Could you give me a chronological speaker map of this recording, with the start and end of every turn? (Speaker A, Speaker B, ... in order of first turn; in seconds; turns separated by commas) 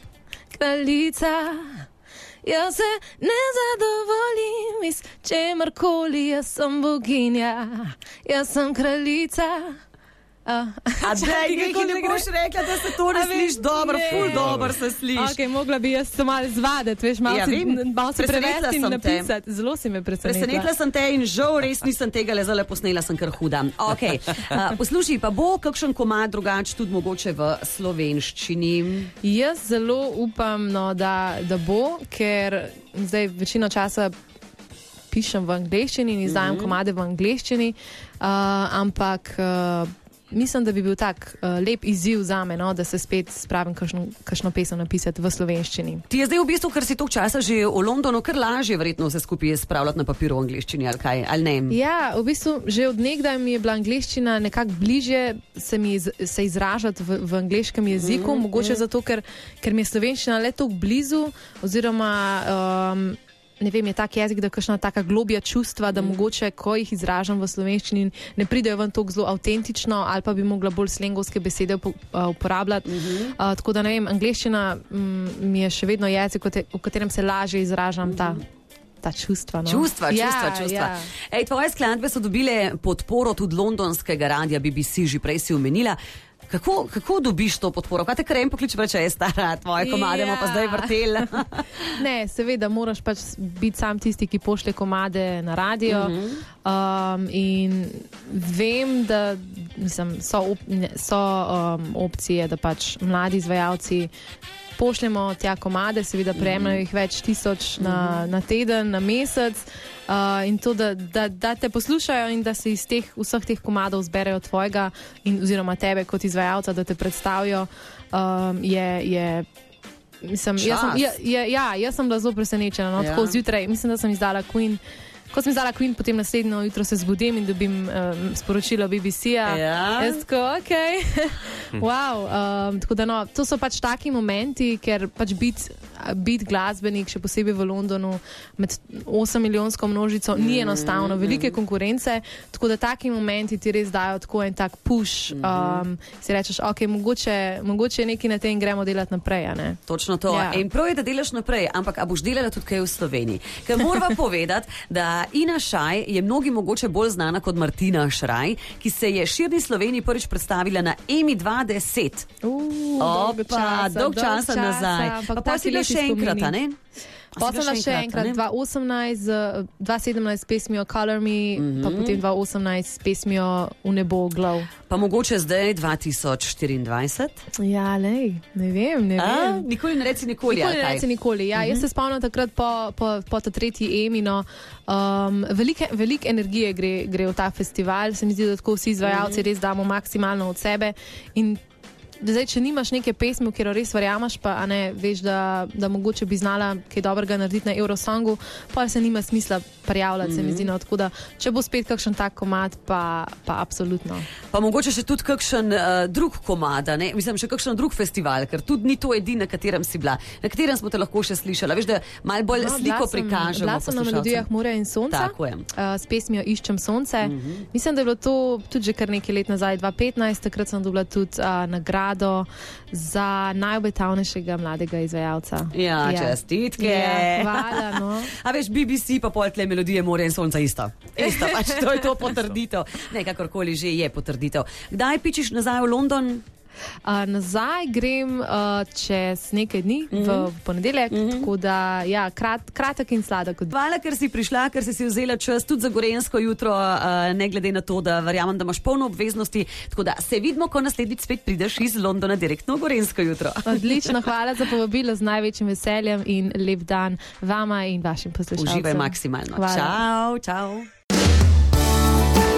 Speaker A: 0.5-1.8, Speaker A: 2.4-9.8, Speaker A: 10.4-20.7, Speaker B: 11.0-15.4, Speaker B: 17.2-19.3, Speaker B: 20.2-29.1, Speaker A: 29.2-34.1, Speaker A: 35.1-46.0, Speaker B: 36.2-36.8, Speaker B: 46.1-51.8, Speaker A: 51.7-78.4, Speaker B: 57.9-58.8, Speaker B: 72.8-73.3, Speaker B: 78.0-78.4, Speaker A: 79.0-81.1, Speaker B: 79.7-86.0, Speaker B: 86.5-91.9, Speaker A: 89.8-91.4, Speaker A: 91.9-104.1, Speaker B: 95.8-96.4, Speaker A: 104.8-119.5, Speaker B: 106.3-106.8, Speaker B: 107.8-108.2, Speaker A: 120.2-150.6, Speaker B: 120.6-121.1, Speaker B: 123.0-123.4, Speaker B: 129.5-130.2, Speaker B: 140.3-141.6, Speaker B: 145.3-145.8, Speaker B: 149.9-162.3, Speaker A: 162.4-166.6, Speaker B: 163.0-166.8, Speaker B: 167.3-168.4, Speaker A: 167.4-174.7, Speaker B: 171.6-172.2, Speaker B: 174.9-177.4, Speaker A: 177.6-179.7, Speaker B: 179.2-181.0, Speaker A: 180.4-191.6, Speaker B: 181.6-181.8, Speaker B: 189.0-189.4, Speaker A: 192.2-204.2, Speaker B: 200.2-200.7, Speaker B: 204.5-214.4, Speaker A: 212.5-228.3, Speaker B: 215.1-215.7, Speaker B: 217.2-217.7, Speaker B: 225.7-236.4, Speaker A: 231.2-231.8, Speaker A: 237.0-243.7, Speaker B: 240.1-240.5, Speaker B: 241.1-241.5, Speaker B: 243.7-254.1, Speaker A: 253.7-260.0, Speaker B: 258.6-260.9